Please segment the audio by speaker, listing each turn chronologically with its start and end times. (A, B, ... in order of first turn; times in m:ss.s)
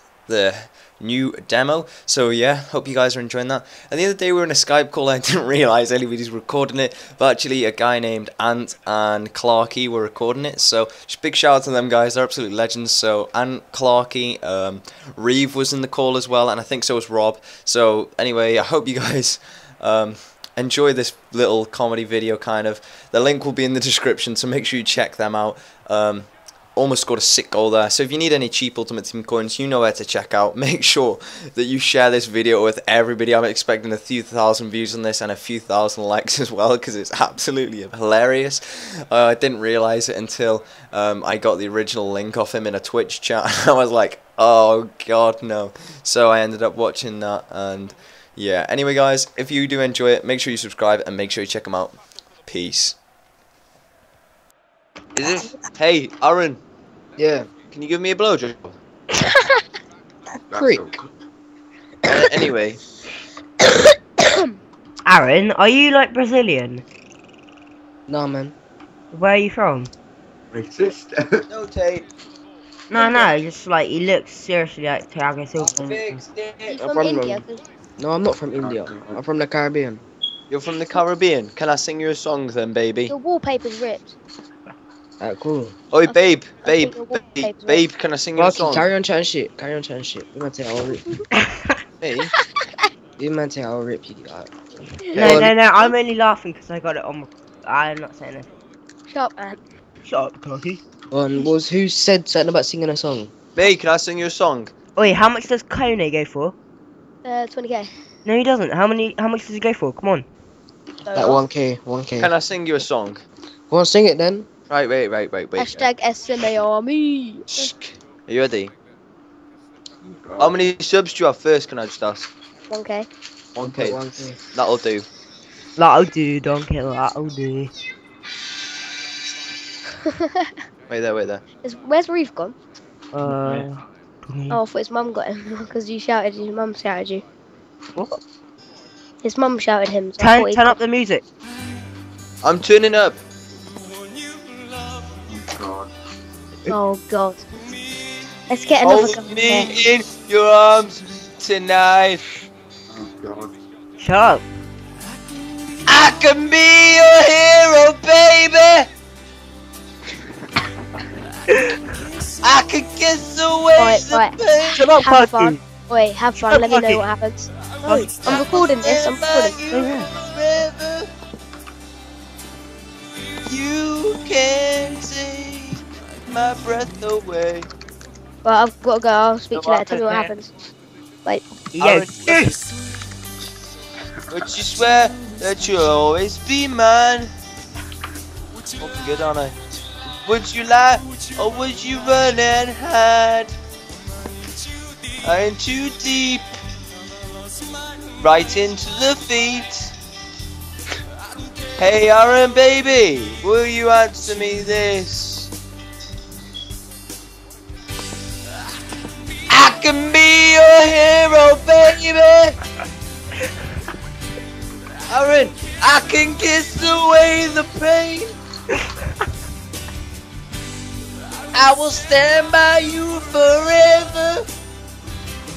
0:00.3-0:53.0 A
0:55.2-0:56.6 A
0:57.2-0:57.5 B
0:57.7-0:58.8 A
1:00.5-1:00.9 B
1:00.5-1:01.1 C
1:02.0-1:02.8 A
1:04.2-1:04.6 D
1:05.1-1:06.8 E
1:08.1-1:08.5 B
1:09.1-1:09.9 E
1:10.5-1:11.4 C
1:11.5-1:12.1 A
1:12.9-1:16.2 E
1:13.0-1:13.3 D
1:15.6-1:16.8 A
1:16.7-1:17.6 D
1:16.8-1:17.4 B
1:18.0-1:20.0 B
1:18.6-1:19.2 C
1:20.5-1:23.1 A
1:23.1-1:24.2 D
1:25.2-1:25.7 B
1:25.9-1:28.9 A
1:26.1-1:27.8 D
1:28.4-1:31.0 B
1:32.0-1:32.3 A
1:32.4-1:32.8 D
1:33.2-1:34.5 B
1:35.1-1:38.5 E
1:35.1-1:35.5 B
1:35.2-1:35.5 A
1:39.1-1:39.6 D
1:40.1-1:40.8 E
1:41.1-1:43.3 B
1:43.6-1:44.7 A
1:45.0-1:46.6 E
1:47.2-1:47.9 D
1:48.2-1:50.3 E
1:51.0-1:51.4 D
1:51.1-1:52.3 B
1:52.2-1:53.2 A
1:53.7-1:54.5 B
1:54.7-1:55.9 A
1:55.6-1:57.7 D
1:57.5-1:58.7 A
2:00.0-2:00.7 C
2:00.4-2:02.3 A
2:02.7-2:03.1 D
2:03.6-2:04.0 A
2:03.6-2:04.4 B
2:04.5-2:05.1 A
2:05.8-2:07.7 E
2:10.0-2:10.5 D
2:10.9-2:11.4 A
2:11.6-2:12.6 D
2:13.1-2:14.6 E
2:14.5-2:17.2 D
2:19.2-2:20.8 D
2:20.2-2:21.2 E
2:22.4-2:23.2 A
2:25.3-2:25.9 C
2:26.7-2:27.4 D
2:28.5-2:29.7 D
2:28.8-2:32.2 A
2:32.9-2:33.5 C
2:34.0-2:34.4 E
2:35.8-2:38.9 A
2:42.4-2:44.8 A
2:43.8-2:44.4 D
2:44.7-2:45.6 E
2:44.9-2:47.5 D
2:46.4-2:47.0 E
2:47.8-2:51.1 A
2:47.8-2:48.4 E
2:48.2-2:49.6 D
2:49.7-2:50.1 E
2:53.5-2:57.7 A
2:58.4-3:00.5 D
2:59.5-3:00.0 A
3:01.7-3:02.6 E
3:01.8-3:02.6 A
3:04.3-3:07.3 A
3:08.8-3:09.5 A
3:10.2-3:13.5 A
3:15.2-3:16.4 A
3:18.2-3:19.9 A
3:21.8-3:25.5 A
3:29.5-3:32.6 A
3:35.1-3:38.3 A
3:41.5-3:44.4 A